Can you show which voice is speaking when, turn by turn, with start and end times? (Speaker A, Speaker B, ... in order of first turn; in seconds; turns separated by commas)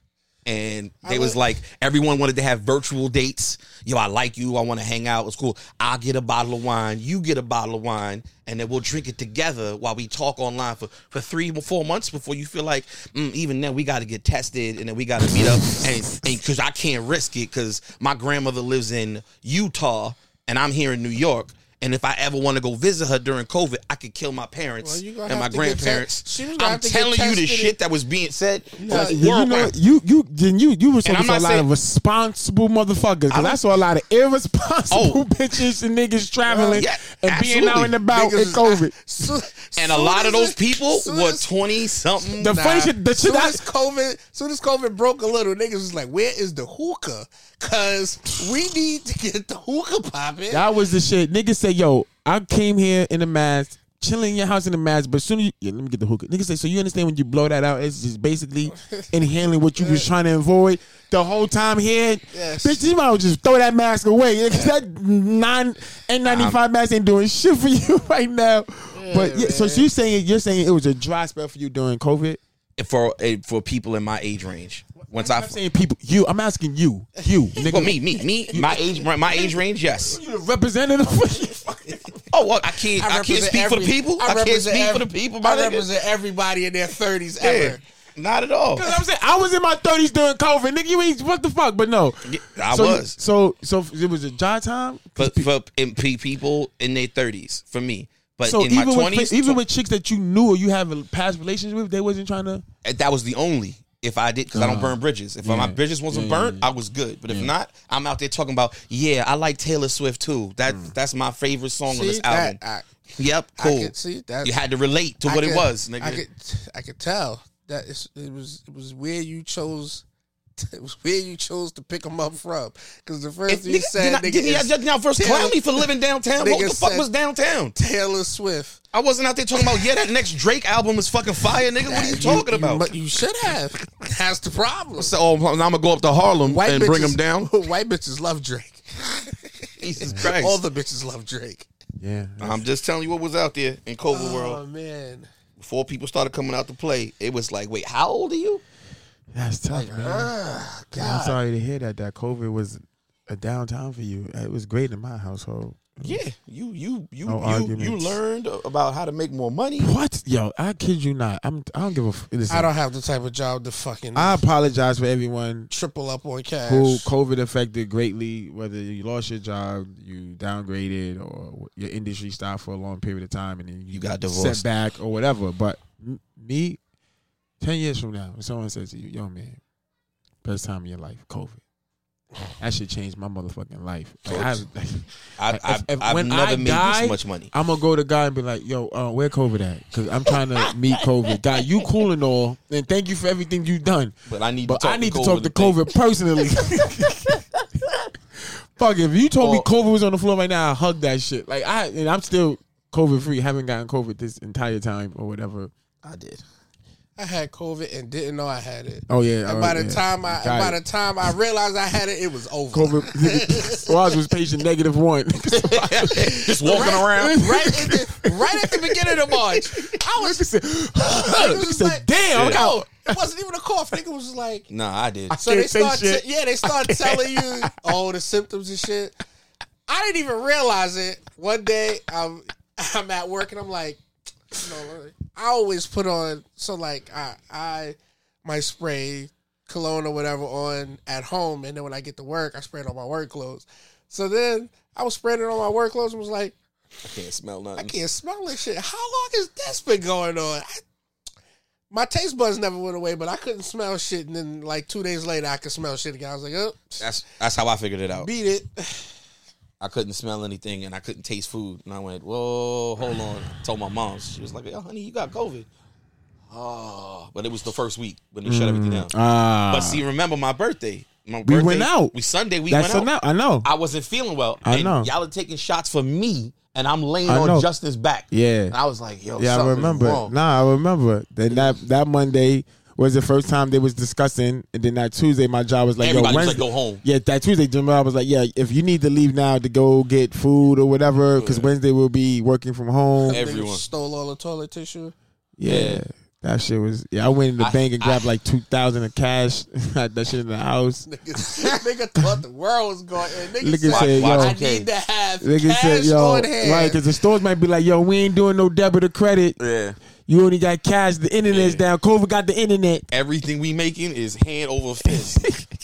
Speaker A: 0.5-29.8, Speaker B: 1.0-1.4, Speaker C: 15.3-15.7, Speaker B: 24.8-27.8, Speaker B: 28.8-29.3, Speaker C: 28.8-39.0, Speaker A: 31.0-31.7, Speaker A: 33.3-33.6, Speaker A: 34.9-35.2, Speaker B: 36.5-36.8, Speaker A: 36.7-38.0, Speaker B: 38.1-41.5, Speaker A: 39.8-42.7, Speaker B: 42.3-50.6, Speaker C: 42.4-43.6, Speaker C: 50.5-72.4, Speaker B: 58.8-59.1, Speaker B: 59.8-60.1, Speaker B: 62.3-62.8, Speaker A: 66.2-66.6, Speaker B: 68.9-69.9, Speaker A: 72.8-75.6, Speaker C: 75.1-82.2, Speaker A: 77.6-80.2, Speaker A: 82.3-85.9, Speaker B: 83.0-87.8, Speaker A: 87.4-89.0, Speaker C: 88.8-95.5, Speaker A: 92.2-93.2, Speaker A: 95.2-99.6, Speaker C: 98.5-102.7, Speaker A: 102.8-112.6, Speaker C: 104.5-106.7, Speaker C: 110.7-110.9, Speaker B: 111.9-112.9, Speaker A: 113.2-116.2, Speaker B: 113.6-114.6, Speaker B: 115.2-120.0, Speaker B: 120.6-127.1, Speaker A: 123.5-127.8, Speaker B: 127.8-128.8, Speaker A: 128.9-132.9, Speaker B: 131.8-135.1, Speaker A: 135.0-137.5, Speaker B: 136.4-141.7, Speaker A: 139.8-140.6, Speaker C: 142.0-142.6, Speaker A: 142.4-144.6, Speaker B: 144.1-145.3, Speaker A: 145.6-148.6, Speaker C: 149.3-150.3, Speaker A: 149.7-151.4, Speaker C: 151.0-156.2, Speaker A: 156.0-159.9, Speaker C: 157.3-158.2, Speaker C: 159.8-162.7, Speaker B: 162.5-164.4, Speaker C: 164.2-165.7, Speaker B: 165.7-167.1, Speaker C: 166.7-176.8, Speaker A: 173.9-174.7, Speaker C: 177.6-179.6, Speaker C: 180.4-181.6, Speaker C: 182.6-194.2, Speaker A: 184.3-184.6, Speaker A: 185.4-187.5, Speaker A: 194.3-195.9, Speaker C: 194.7-197.4, Speaker C: 198.8-205.7, Speaker A: 199.4-199.7, Speaker A: 206.0-206.4, Speaker B: 207.2-213.9, Speaker C: 209.1-210.8, Speaker C: 212.7-223.1, Speaker A: 215.6-217.7, Speaker B: 216.7-220.4, Speaker B: 221.0-224.7, Speaker A: 222.3-222.7, Speaker A: 224.7-225.4, Speaker C: 225.3-227.7, Speaker B: 225.4-229.1, Speaker B: 229.9-234.0, Speaker B: 234.5-246.6, Speaker A: 247.0-248.0, Speaker B: 247.8-250.8, Speaker B: 251.9-257.1, Speaker A: 257.0-258.3, Speaker B: 258.1-259.1, Speaker A: 259.8-265.7, Speaker A: 266.5-269.1, Speaker C: 268.5-270.0, Speaker A: 269.7-273.1, Speaker C: 271.4-272.1, Speaker C: 272.7-273.7, Speaker A: 273.6-280.3, Speaker C: 274.6-275.1, Speaker C: 277.3-277.7, Speaker C: 278.3-278.8, Speaker C: 279.4-293.4, Speaker A: 281.5-281.8, Speaker A: 286.0-287.0, Speaker A: 291.4-291.7, Speaker B: 293.3-295.1, Speaker A: 293.3-293.9, Speaker C: 295.6-301.1, Speaker A: 295.6-296.1, Speaker A: 297.6-298.3, Speaker B: 301.1-307.0, Speaker C: 303.6-304.6, Speaker A: 303.9-304.9, Speaker C: 305.4-309.6, Speaker A: 309.6-310.0, Speaker C: 310.3-313.1, Speaker A: 311.5-311.9, Speaker A: 313.1-315.4, Speaker C: 315.2-315.6